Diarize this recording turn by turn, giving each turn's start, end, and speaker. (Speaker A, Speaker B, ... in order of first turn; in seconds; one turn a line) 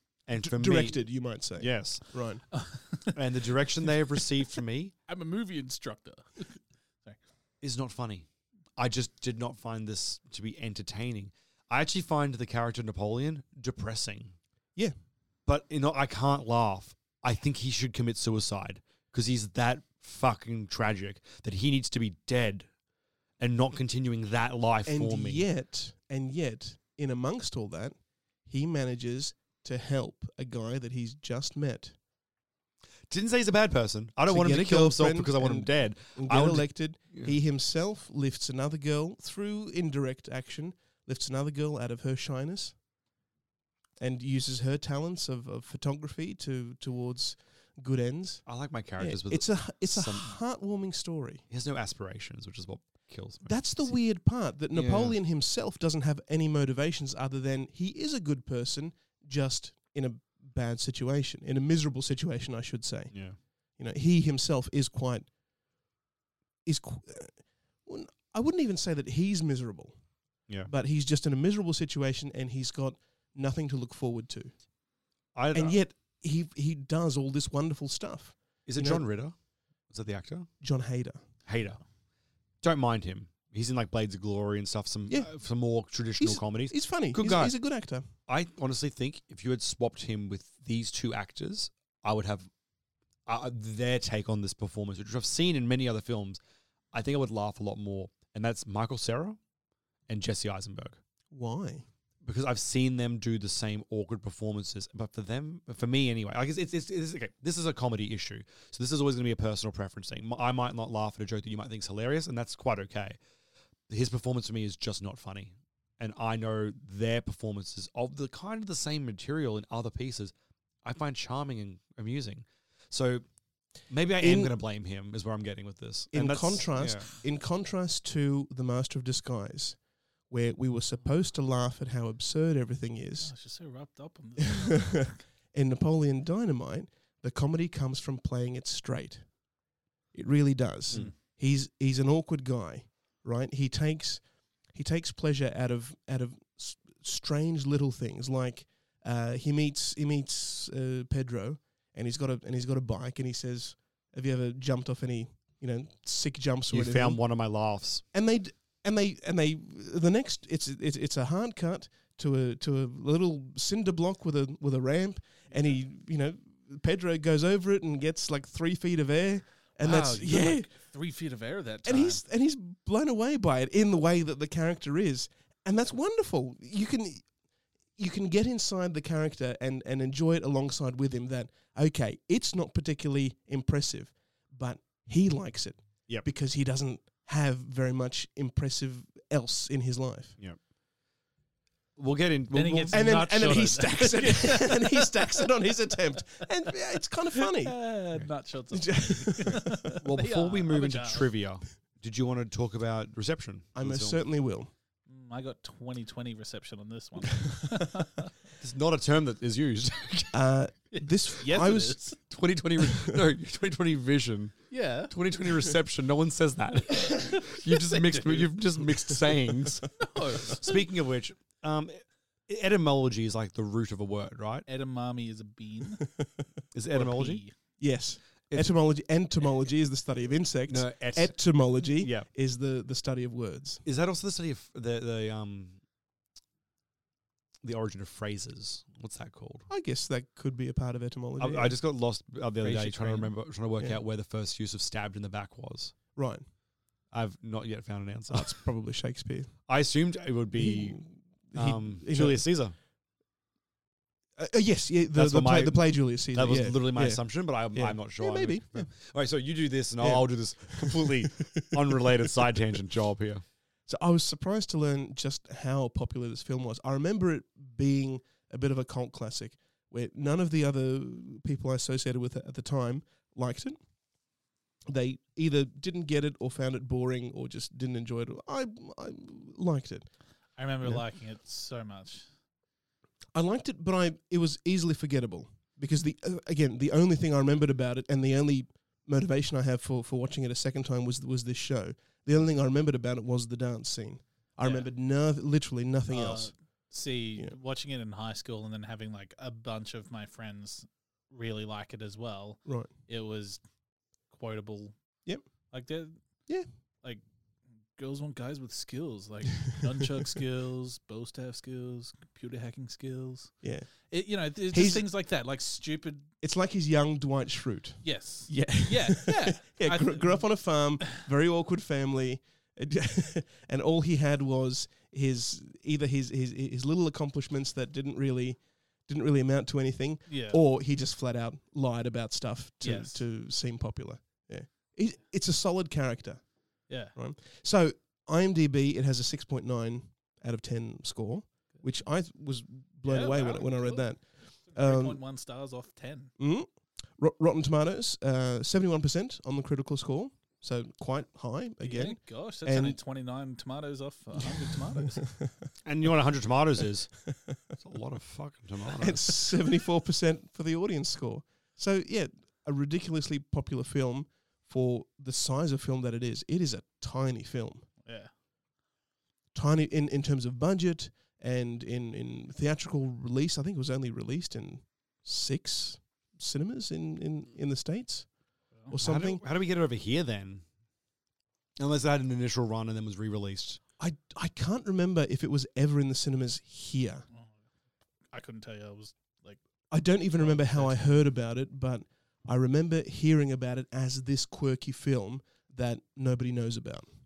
Speaker A: 0.3-2.1
Speaker B: 0.4-2.4
Speaker C: 2.5-3.1
Speaker A: 3.1-4.9
Speaker C: 5.1-7.2
Speaker A: 7.6-8.3
Speaker A: 8.8-14.3
Speaker A: 15.5-22.7
Speaker A: 23.4-25.4
Speaker B: 24.9-32.0
Speaker A: 33.1-37.3
Speaker B: 34.3-42.8
Speaker B: 44.0-48.5
Speaker A: 48.5-50.4
Speaker B: 49.0-51.4
Speaker A: 51.5-54.0
Speaker B: 53.5-65.3
Speaker A: 54.7-55.2
Speaker A: 63.1-63.4
Speaker B: 66.7-70.0
Speaker B: 70.6-74.6
Speaker A: 75.3-75.8
Speaker B: 75.5-79.0
Speaker A: 78.7-79.3
Speaker A: 79.9-80.5
Speaker B: 80.6-81.2
Speaker A: 81.5-81.8
Speaker A: 82.6-87.6
Speaker B: 86.2-88.1
Speaker A: 88.3-92.5
Speaker A: 93.3-96.4
Speaker A: 96.9-99.4
Speaker A: 100.1-101.0
Speaker B: 101.3-101.9
Speaker A: 102.2-113.2
Speaker A: 113.9-123.2
Speaker A: 123.9-127.2
Speaker B: 124.2-124.5
Speaker B: 126.1-133.3
Speaker C: 133.2-135.1
Speaker B: 134.4-139.3
Speaker B: 140.1-157.2
Speaker A: 156.7-158.0
Speaker B: 158.1-170.7
Speaker C: 165.5-165.8
Speaker C: 169.8-172.2
Speaker B: 171.8-177.3
Speaker B: 178.0-190.4
Speaker A: 192.0-193.6
Speaker C: 192.5-195.4
Speaker B: 192.9-197.9
Speaker C: 197.5-201.3
Speaker B: 198.7-199.8
Speaker A: 200.0-204.2
Speaker B: 203.8-204.7
Speaker C: 205.1-208.3
Speaker A: 208.6-210.3
Speaker B: 210.3-212.2
Speaker C: 210.9-212.2
Speaker A: 212.3-224.7
Speaker C: 214.7-215.1
Speaker C: 217.1-218.6
Speaker C: 220.0-220.7
Speaker C: 224.7-226.1
Speaker A: 226.7-227.4
Speaker C: 226.9-227.5
Speaker B: 227.8-233.8
Speaker A: 230.7-232.3
Speaker A: 233.8-235.8
Speaker A: 237.6-239.7
Speaker B: 239.7-241.8
Speaker A: 241.4-246.0
Speaker C: 242.7-243.0
Speaker B: 242.7-243.2
Speaker B: 246.2-246.5
Speaker A: 247.1-248.6
Speaker B: 248.3-249.5
Speaker A: 249.7-251.0
Speaker B: 250.6-252.4
Speaker A: 251.5-252.8
Speaker B: 254.4-258.9
Speaker A: 255.2-263.4
Speaker B: 260.0-262.0
Speaker B: 263.9-273.8
Speaker B: 274.9-280.1
Speaker C: 280.6-282.3
Speaker B: 283.3-296.6
Speaker C: 294.6-294.9
Speaker C: 296.1-303.6
Speaker B: 302.6-302.9
Speaker C: 304.3-305.0
Speaker C: 305.7-306.2
Speaker C: 308.0-313.6
Speaker B: 313.6-313.9
Speaker C: 314.1-316.3
Speaker B: 314.7-315.1
Speaker B: 316.4-345.2
Speaker C: 318.0-320.6
Speaker C: 330.3-330.6
Speaker C: 332.8-333.2
Speaker C: 336.9-337.1
Speaker C: 343.1-346.3
Speaker B: 346.4-353.0
Speaker C: 351.8-355.2
Speaker B: 354.4-355.5
Speaker A: 355.8-359.3
Speaker B: 359.0-367.9
Speaker C: 368.0-368.3
Speaker B: 369.5-378.3
Speaker B: 378.9-379.4
Speaker A: 379.0-380.6
Speaker A: 381.8-383.8
Speaker B: 384.0-387.3
Speaker C: 388.3-389.6
Speaker B: 389.9-397.1
Speaker C: 390.1-391.2